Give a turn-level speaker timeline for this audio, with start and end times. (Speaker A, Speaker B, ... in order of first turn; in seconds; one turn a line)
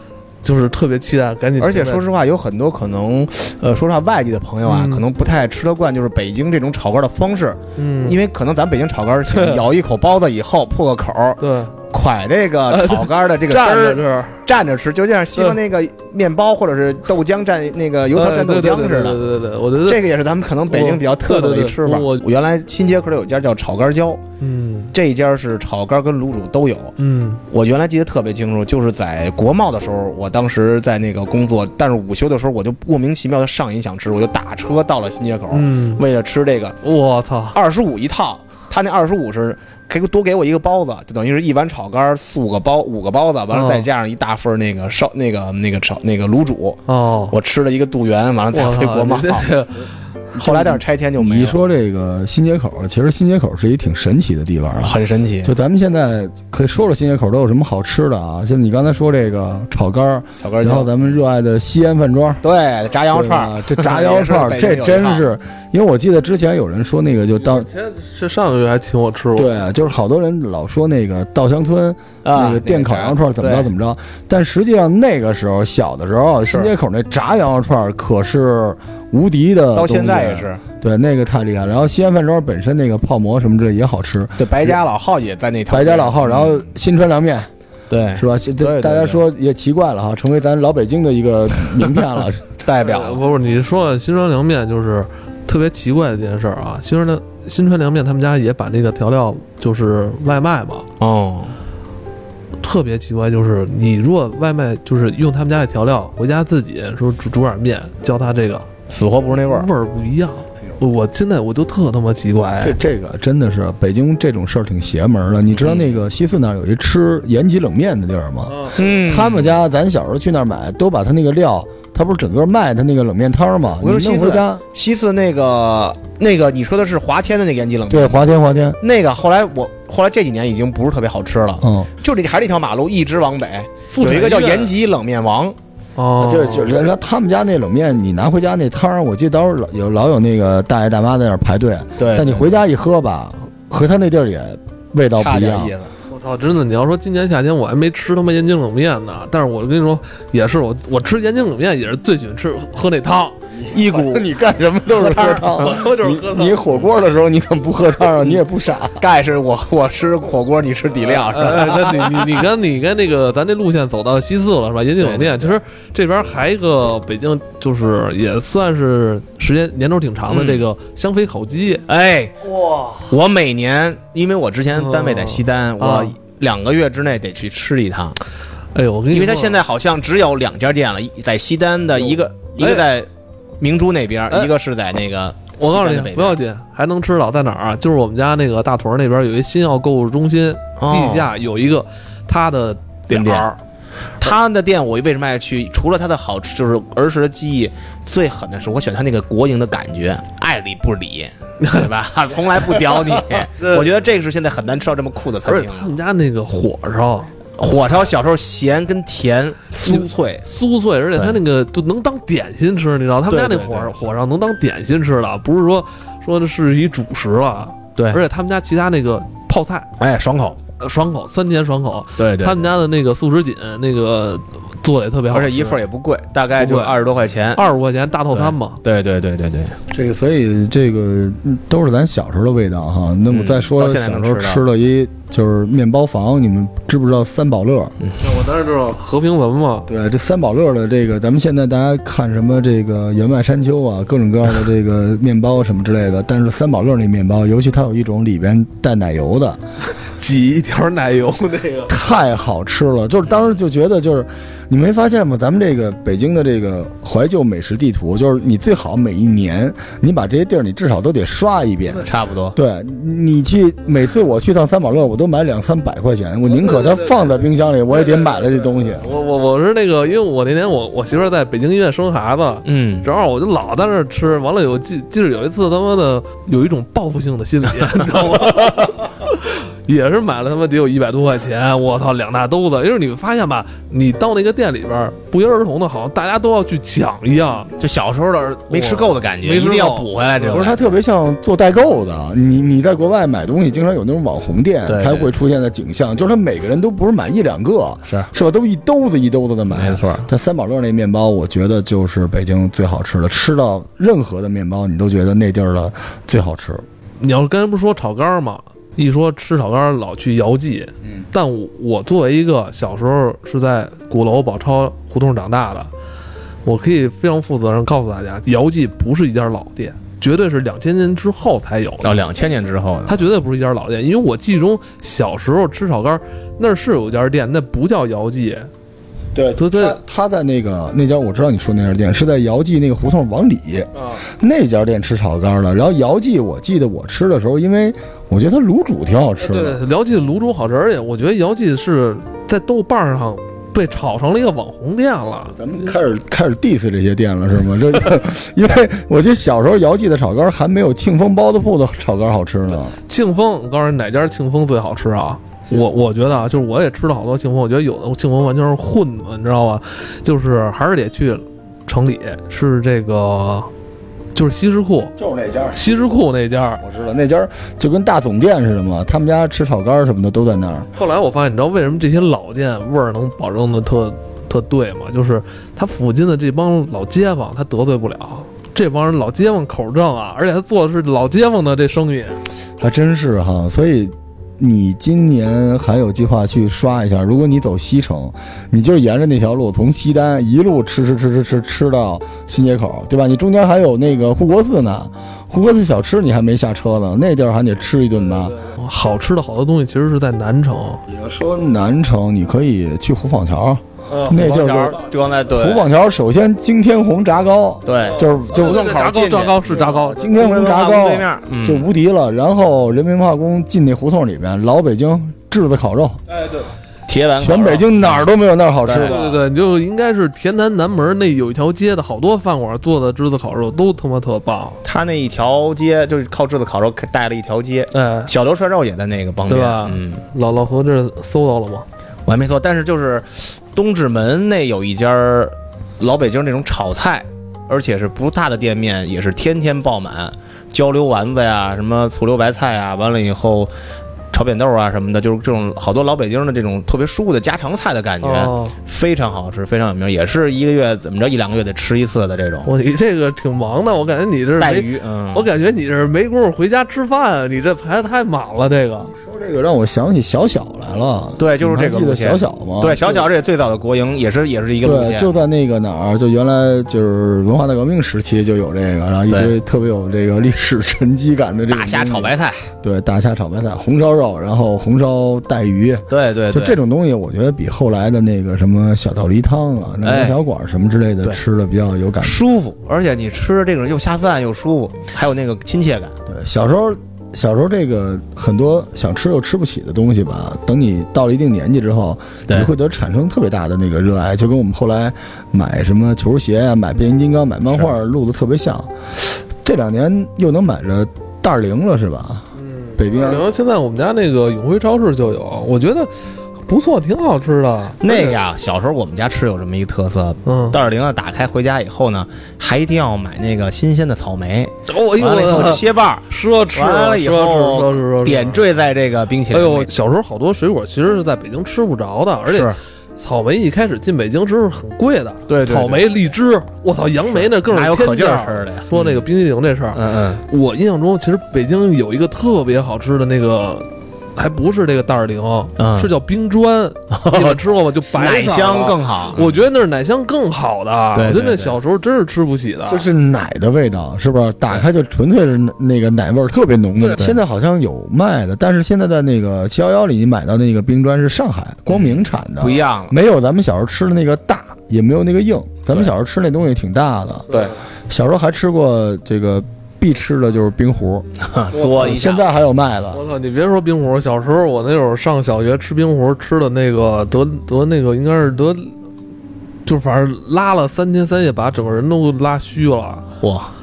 Speaker A: 0.4-2.0
Speaker B: 1.6-11.4
Speaker A: 4.7-5.0
Speaker A: 7.8-8.2
Speaker A: 9.3-9.6
Speaker A: 11.4-11.7
Speaker B: 11.9-19.2
Speaker A: 12.7-14.4
Speaker A: 18.1-20.0
Speaker B: 19.8-24.2
Speaker A: 20.7-22.2
Speaker A: 24.4-24.9
Speaker B: 24.9-26.9
Speaker A: 27.0-27.4
Speaker B: 27.5-36.8
Speaker A: 35.5-36.0
Speaker A: 36.8-37.6
Speaker B: 37.5-49.5
Speaker A: 43.5-43.9
Speaker A: 46.9-47.3
Speaker A: 48.5-49.9
Speaker B: 50.4-51.6
Speaker C: 50.4-62.4
Speaker B: 54.8-55.5
Speaker B: 60.4-61.2
Speaker B: 62.4-65.3
Speaker C: 63.1-67.7
Speaker A: 67.4-69.5
Speaker C: 69.3-84.8
Speaker B: 72.2-73.7
Speaker B: 76.5-76.7
Speaker B: 79.7-80.6
Speaker B: 84.4-86.6
Speaker C: 85.7-87.5
Speaker B: 87.9-89.2
Speaker C: 88.2-92.5
Speaker B: 92.6-93.2
Speaker A: 92.8-100.9
Speaker B: 101.0-101.5
Speaker A: 102.6-108.7
Speaker B: 108.9-109.7
Speaker A: 109.5-112.8
Speaker C: 112.6-124.6
Speaker B: 115.5-116.0
Speaker A: 118.5-118.8
Speaker B: 118.8-119.6
Speaker B: 123.8-128.2
Speaker C: 127.9-128.8
Speaker B: 128.8-135.6
Speaker C: 131.6-131.9
Speaker A: 133.9-134.7
Speaker A: 136.0-136.8
Speaker C: 136.2-145.7
Speaker B: 142.0-142.6
Speaker B: 145.2-145.9
Speaker A: 146.1-153.4
Speaker C: 153.6-159.0
Speaker B: 153.7-154.2
Speaker B: 155.1-155.7
Speaker A: 155.2-156.6
Speaker B: 159.0-162.2
Speaker A: 161.1-171.8
Speaker B: 165.0-165.6
Speaker B: 170.3-170.6
Speaker B: 171.9-172.4
Speaker C: 172.4-173.1
Speaker B: 173.0-178.2
Speaker A: 174.7-176.1
Speaker A: 178.7-179.6
Speaker B: 179.1-183.1
Speaker A: 182.6-182.9
Speaker B: 183.6-186.4
Speaker A: 185.6-193.6
Speaker B: 190.8-191.3
Speaker B: 193.1-193.5
Speaker B: 194.2-205.9
Speaker A: 201.6-201.9
Speaker A: 203.6-203.9
Speaker A: 205.4-207.3
Speaker B: 207.6-210.4
Speaker A: 209.8-219.9
Speaker B: 213.3-213.9
Speaker B: 217.9-218.2
Speaker B: 220.0-220.6
Speaker A: 220.8-225.8
Speaker B: 222.2-222.7
Speaker B: 225.3-227.6
Speaker A: 226.6-226.9
Speaker A: 227.5-228.8
Speaker B: 228.3-229.8
Speaker C: 229.9-237.9
Speaker B: 233.3-234.6
Speaker A: 238.2-239.9
Speaker C: 239.9-249.6
Speaker A: 250.2-251.9
Speaker C: 251.9-269.1
Speaker B: 262.0-262.6
Speaker A: 266.6-267.1
Speaker A: 269.0-287.7
Speaker B: 272.6-273.1
Speaker B: 287.8-290.9
Speaker A: 288.7-290.7
Speaker C: 290.5-306.8
Speaker B: 294.9-295.3
Speaker B: 299.7-300.2
Speaker A: 307.2-315.9
Speaker A: 316.6-322.2
Speaker B: 322.0-323.2
Speaker A: 323.1-328.7
Speaker C: 329.3-339.8
Speaker A: 329.6-330.0
Speaker A: 333.9-334.2
Speaker A: 339.4-345.7
Speaker C: 345.6-352.9
Speaker A: 353.0-363.7
Speaker A: 364.3-365.1
Speaker C: 365.1-365.8
Speaker A: 365.7-366.8
Speaker C: 366.8-370.9
Speaker A: 370.9-382.4
Speaker C: 382.8-398.6
Speaker A: 398.6-401.0
Speaker C: 401.1-408.9
Speaker A: 404.1-404.5
Speaker B: 404.3-405.9
Speaker B: 407.9-409.6
Speaker A: 408.0-410.4
Speaker C: 409.8-416.2
Speaker B: 410.3-411.9
Speaker B: 417.1-418.3
Speaker C: 417.4-419.3
Speaker B: 418.9-419.2
Speaker A: 418.9-424.8
Speaker B: 424.8-430.2
Speaker A: 427.9-428.3
Speaker A: 429.5-431.9
Speaker B: 432.2-443.7
Speaker B: 444.3-452.7
Speaker A: 448.2-448.8
Speaker A: 452.6-459.1
Speaker B: 454.6-455.5
Speaker C: 459.2-463.3
Speaker B: 461.4-465.3
Speaker C: 464.8-482.4
Speaker B: 469.3-469.6
Speaker B: 471.7-472.6
Speaker B: 476.1-476.8
Speaker B: 480.0-480.4
Speaker B: 482.2-486.1
Speaker C: 486.3-502.4
Speaker A: 502.6-506.1
Speaker C: 503.0-503.4
Speaker A: 506.7-508.4
Speaker B: 508.0-519.9
Speaker A: 510.4-510.8
Speaker A: 514.9-518.6
Speaker A: 519.5-543.0
Speaker B: 522.5-522.8
Speaker B: 525.5-526.2
Speaker B: 527.3-529.2
Speaker B: 529.9-530.4
Speaker B: 535.8-536.1
Speaker B: 537.1-537.6
Speaker B: 538.1-539.6
Speaker B: 541.1-541.8
Speaker C: 542.9-557.5
Speaker B: 551.9-553.1
Speaker A: 557.5-557.7
Speaker C: 558.1-561.2
Speaker B: 561.4-562.5
Speaker C: 561.8-563.2
Speaker A: 563.1-568.9
Speaker A: 569.9-573.2
Speaker B: 573.4-573.7